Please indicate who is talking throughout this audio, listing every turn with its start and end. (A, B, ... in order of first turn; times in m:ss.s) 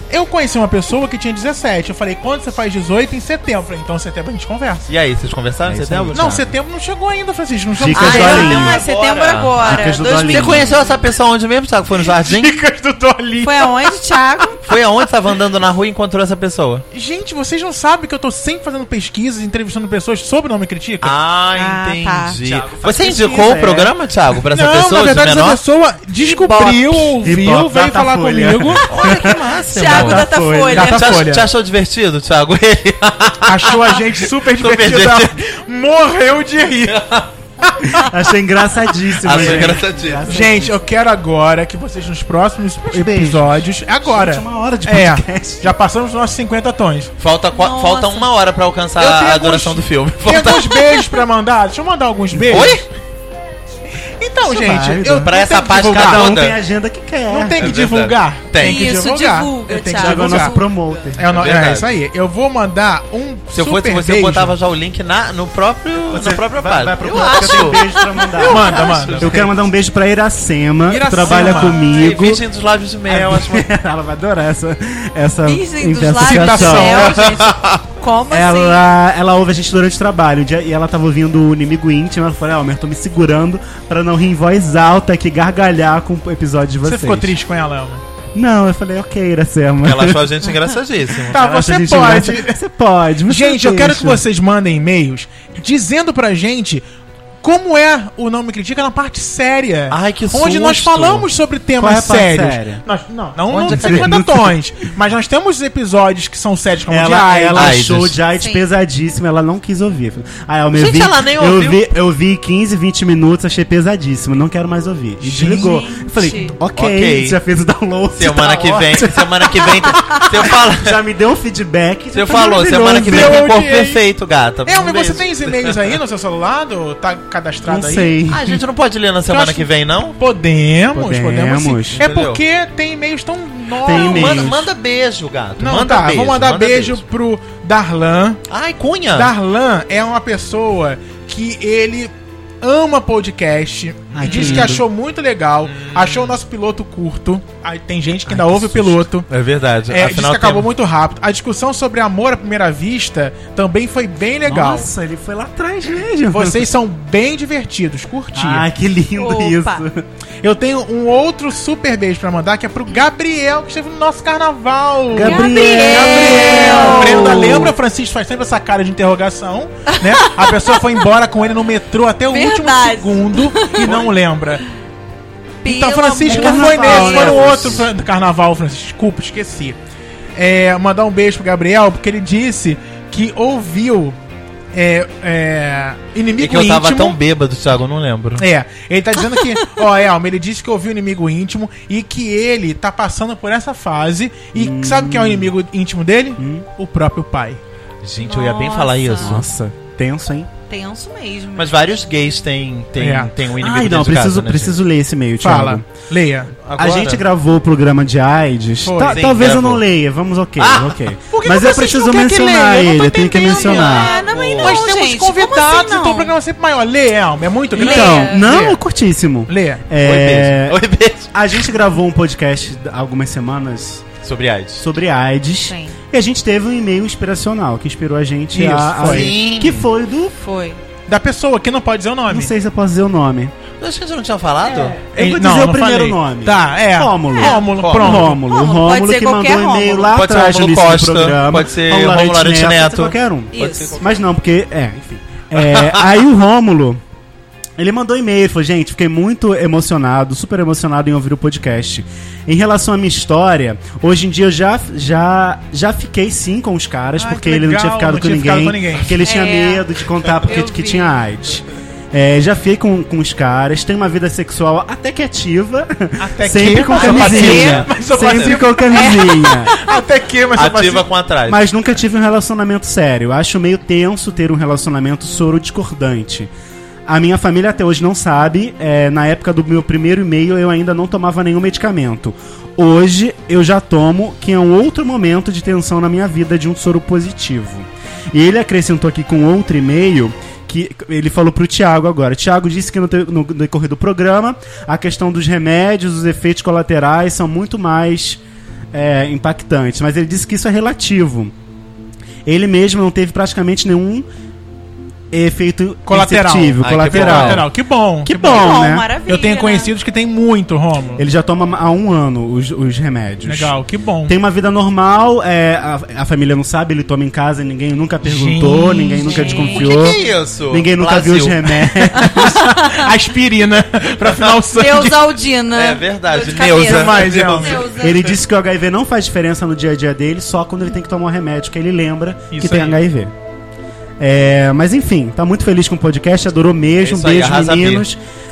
0:00.1-0:04.9 A
0:04.9-0:06.5 B
0:05.7-0:06.2 C
0:06.1-0:08.6 A
0:07.7-0:08.8 C
0:07.9-0:12.6 B
0:08.0-0:11.0 D
0:09.6-0:10.7 C
0:12.0-0:14.8 A
0:13.4-0:14.6 D
0:14.6-0:16.9 B
0:16.9-0:21.2 A
0:21.0-0:25.6 B
0:21.6-0:22.4 D
0:22.4-0:23.9 C
0:24.5-0:29.3 A
0:26.2-0:26.9 D
0:26.5-0:30.9 C
0:28.8-0:35.4 B
0:29.7-0:31.0 D
0:30.7-0:31.5 A
0:33.5-0:38.1 A
0:36.9-0:37.3 B
0:37.8-0:40.8 C
0:39.2-0:40.5 B
0:39.3-0:47.1 A
0:42.9-0:45.8 C
0:47.2-0:51.2 B
0:47.5-0:48.3 D
0:49.0-0:52.8 A
0:52.4-0:52.8 B
0:54.2-0:56.3 A
0:54.4-0:57.8 C
0:55.2-0:56.6 B
0:57.3-1:00.6 A
0:57.6-0:59.0 B
0:58.6-1:01.1 D
1:00.0-1:01.3 C
1:01.2-1:04.5 A
1:01.2-1:02.0 B
1:03.5-1:07.9 B
1:06.1-1:12.4 C
1:07.0-1:08.6 D
1:08.4-1:09.5 A
1:08.4-1:09.5 B
1:10.9-1:11.9 A
1:11.2-1:13.7 B
1:13.1-1:17.1 C
1:15.4-1:18.8 D
1:16.2-1:17.2 A
1:16.6-1:17.8 B
1:18.3-1:27.4 C
1:26.8-1:28.0 A
1:28.4-1:30.4 C
1:29.8-1:31.5 B
1:31.3-1:34.2 C
1:31.3-1:32.6 A
1:33.3-1:36.8 A
1:37.4-1:47.8 A
1:39.9-1:41.3 B
1:41.8-1:42.8 C
1:43.5-1:44.2 B
1:43.7-1:44.6 C
1:46.9-2:03.5 C
1:47.5-1:48.2 B
1:48.4-1:48.7 D
1:50.7-1:51.9 B
1:55.2-1:56.5 A
1:55.6-1:56.6 D
1:56.8-1:57.4 B
1:58.2-2:01.0 B
2:02.1-2:05.8 B
2:02.6-2:04.0 A
2:04.6-2:08.2 A
2:07.6-2:08.6 C
2:08.3-2:10.2 B
2:09.3-2:14.5 A
2:10.9-2:12.0 C
2:12.0-2:12.4 B
2:13.8-2:14.7 C
2:13.9-2:17.0 B
2:15.6-2:18.4 A
2:18.5-2:19.3 B
2:19.1-2:29.3 A
2:24.1-2:24.8 C
2:24.2-2:24.8 B
2:25.6-2:26.4 B
2:28.3-2:29.1 C
2:29.3-2:30.7 B
2:29.9-2:34.9 A
2:34.4-2:36.6 C
2:36.3-2:38.7 A
2:38.3-2:40.0 C
2:39.2-2:39.8 D
2:40.4-2:54.6 A
2:45.1-2:47.8 C
2:45.2-2:47.5 D
2:49.9-2:51.0 D
2:52.3-2:54.1 D
2:55.6-2:57.7 D
2:55.6-2:59.8 A
2:56.2-2:57.9 C
3:00.4-3:04.2 A
3:04.7-3:07.2 A
3:06.4-3:08.5 B
3:08.4-3:17.6 A
3:14.6-3:15.5 C
3:16.4-3:16.7 C
3:18.0-3:19.5 B
3:18.2-3:19.4 D
3:19.2-3:20.5 C
3:20.7-3:21.8 D
3:21.6-3:24.8 B
3:23.0-3:23.3 A
3:23.6-3:25.8 C
3:25.4-3:26.6 A
3:26.6-3:27.2 B
3:26.8-3:34.1 C
3:28.8-3:29.2 A
3:29.0-3:29.8 B
3:30.6-3:31.0 B
3:31.3-3:38.8 A
3:33.5-3:36.3 D
3:33.8-3:34.9 B
3:37.8-3:38.5 D
3:37.8-3:40.8 C
3:39.5-3:39.8 A
3:40.0-3:41.3 B
3:41.3-3:44.1 C
3:44.2-3:44.8 B
3:44.8-3:50.4 C
3:45.7-3:46.0 D
3:48.5-3:49.3 A
3:49.0-3:49.9 B
3:50.4-3:50.8 D
3:51.1-3:52.5 A
3:52.3-3:53.5 C
3:53.8-3:55.0 B
3:54.6-4:07.0 C
3:55.1-3:58.4 A
3:57.4-3:57.7 D
3:57.8-3:58.3 B
3:58.4-4:00.2 D
4:00.1-4:04.2 B
4:03.5-4:03.9 D
4:07.8-4:29.8 C
4:17.2-4:19.2 A
4:19.2-4:19.9 D
4:20.4-4:21.2 D
4:26.2-4:31.1 A
4:26.9-4:28.6 B
4:26.9-4:27.8 D
4:28.9-4:30.0 D
4:30.5-4:31.6 B
4:31.5-4:36.5 C
4:37.1-4:58.4 C
4:58.9-5:01.5 C
5:02.5-5:04.3 C
5:05.3-5:07.7 C
5:06.1-5:08.7 A
5:06.8-5:07.7 B
5:08.2-5:09.1 C
5:08.5-5:09.9 D
5:09.3-5:11.2 A
5:11.2-5:13.8 C
5:13.5-5:14.4 A
5:14.3-5:22.6 C
5:18.2-5:19.9 A
5:19.2-5:19.9 D
5:19.7-5:21.7 B
5:22.2-5:25.4 A
5:22.2-5:23.1 D
5:24.2-5:24.6 B
5:24.7-5:28.4 D
5:25.7-5:28.3 B
5:26.7-5:27.9 A
5:28.0-5:33.3 C
5:32.5-5:33.0 A
5:34.2-5:38.2 C
5:37.0-5:38.0 B